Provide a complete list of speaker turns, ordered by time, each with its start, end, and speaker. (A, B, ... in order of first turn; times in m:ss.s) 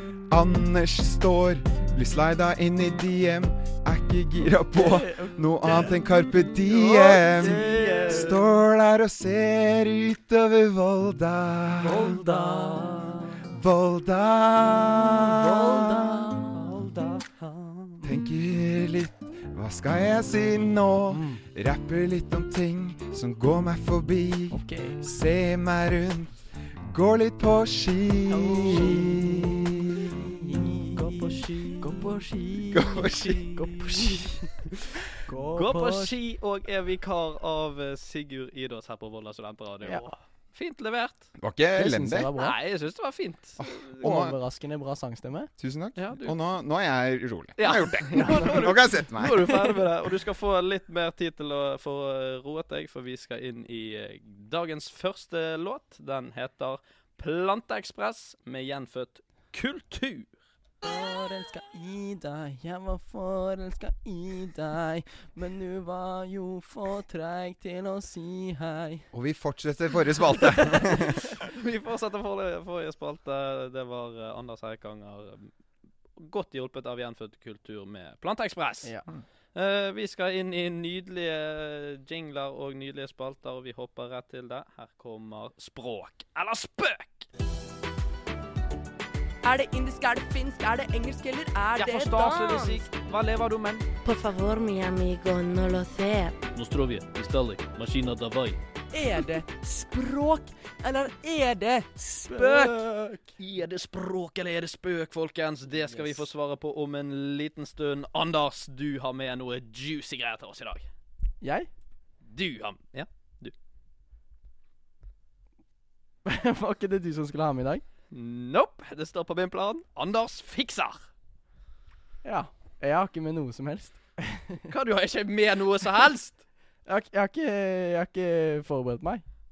0:00.3-0:12.2 A
0:04.7-0:05.9 B
0:06.6-0:08.4 C
0:07.0-0:08.4 B
0:11.8-0:13.5 C
0:11.8-0:13.0 B
0:13.4-0:16.4 A
0:15.3-0:16.7 B
0:15.4-0:15.9 C
0:16.5-0:18.0 C
0:18.0-0:30.3 A
0:21.1-0:21.4 B
0:24.5-0:25.0 B
0:28.2-0:34.5 B
0:30.9-0:31.9 C
0:32.7-0:33.5 A
0:33.1-0:34.4 C
0:35.2-0:36.1 B
0:35.5-0:41.3 C
0:39.8-0:40.1 B
0:41.4-0:42.3 A
0:41.7-0:42.6 B
0:42.4-0:44.0 C
0:43.6-0:44.4 A
0:44.0-0:45.5 B
0:45.6-0:49.9 A
0:46.0-0:46.4 C
0:47.6-1:00.3 C
1:00.8-1:09.0 B
1:09.1-1:11.3 A
1:10.8-1:15.5 C
1:16.2-1:18.9 C
1:19.5-1:27.3 C
1:29.4-1:32.8 D
1:31.8-1:33.8 C
1:34.0-1:36.4 E
1:36.5-1:38.6 C
1:39.0-1:40.2 B
1:39.1-1:42.0 D
1:42.1-1:42.8 B
1:42.2-1:50.9 C
1:45.9-1:46.2 B
1:51.4-1:51.7 B
1:52.2-1:53.5 C
1:56.2-1:57.8 B
1:58.1-2:01.1 C
2:02.2-2:04.7 B
2:04.7-2:06.4 C
2:06.8-2:09.2 B